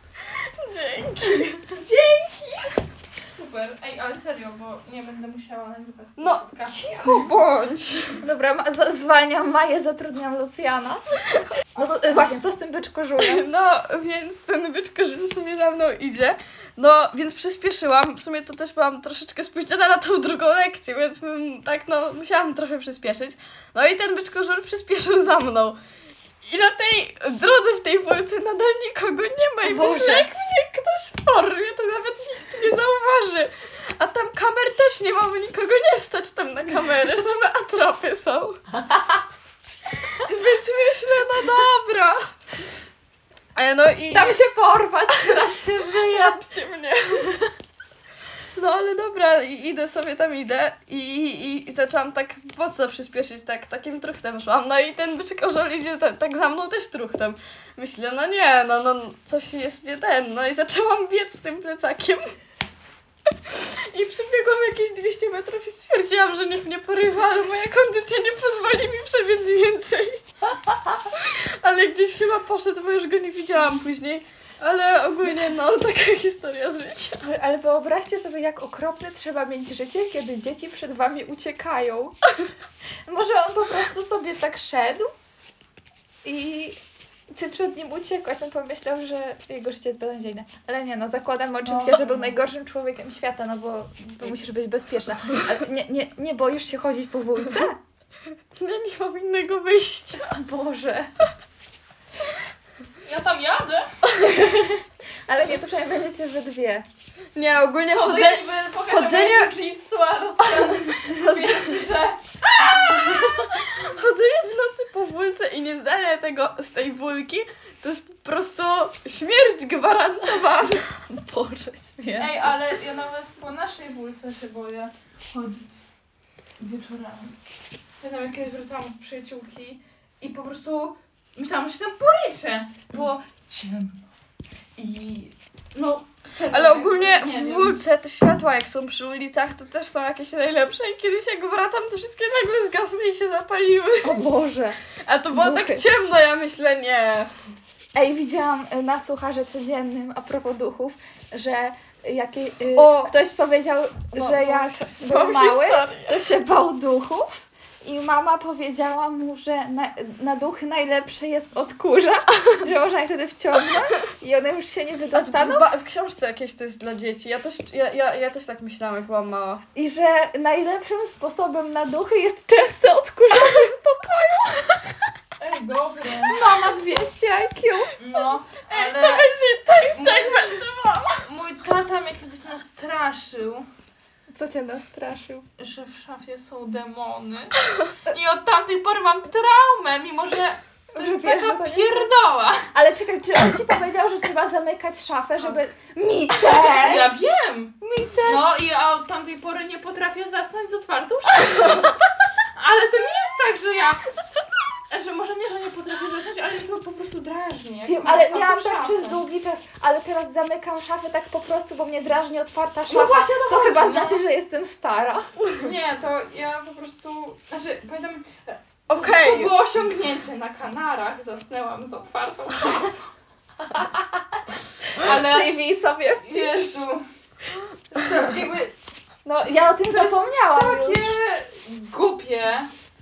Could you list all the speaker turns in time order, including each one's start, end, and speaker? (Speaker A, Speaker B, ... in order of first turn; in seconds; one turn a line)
Speaker A: 0.3-1.6
Speaker B: 1.7-7.2
Speaker A: 6.2-8.2
Speaker C: 8.2-11.0
Speaker C: 11.7-13.4
Speaker A: 13.2-25.8
Speaker A: 26.4-38.6
Speaker C: 29.6-30.3
Speaker C: 38.9-39.1
Speaker A: 40.0-42.3
Speaker A: 43.5-44.4
Speaker C: 44.1-46.4
Speaker A: 45.2-47.4
Speaker A: 48.5-62.3
Speaker A: 63.5-70.2
Speaker A: 71.1-77.3
Speaker C: 77.3-82.2
Speaker C: 83.0-85.1
Speaker C: 86.2-97.8
Speaker B: 91.6-92.3
Speaker A: 98.5-100.4
Speaker C: 100.3-101.1
Speaker B: 103.0-103.9
Speaker C: 104.2-106.9
Speaker A: 107.3-109.5
Speaker B: 107.8-113.7
Speaker A: 110.5-111.8
Speaker A: 112.8-120.9
Speaker C: 121.1-122.3
Speaker B: 122.2-125.8
Speaker B: 126.6-127.3
Speaker B: 128.0-134.0
Speaker B: 134.8-137.8
Speaker A: 136.5-144.3
Speaker C: 144.0-144.8
Speaker A: 145.0-147.3
Speaker C: 145.3-145.8
Speaker C: 147.9-165.7
Speaker A: 152.7-153.1
Speaker A: 154.1-156.2
Speaker A: 165.1-169.6
Speaker C: 169.7-174.9
Speaker B: 175.4-176.4
Speaker C: 176.2-177.9
Speaker B: 178.0-179.3
Speaker A: 178.6-181.2
Speaker B: 179.9-180.6
Speaker B: 181.2-183.7
Speaker C: 184.3-185.4
Speaker B: 185.6-192.7
Speaker C: 190.9-192.1
Speaker C: 192.7-197.3
Speaker B: 196.6-201.9
Speaker C: 197.8-198.5
Speaker B: 202.5-204.1
Speaker B: 204.9-209.2
Speaker C: 207.8-215.3
Speaker B: 212.9-214.2
Speaker B: 215.6-222.9
Speaker A: 218.9-219.6
Speaker C: 223.7-224.2
Speaker B: 224.9-225.6
Speaker C: 224.9-226.8
Speaker B: 226.2-227.0
Speaker B: 227.9-228.7
Speaker C: 229.2-231.1
Speaker B: 229.9-232.7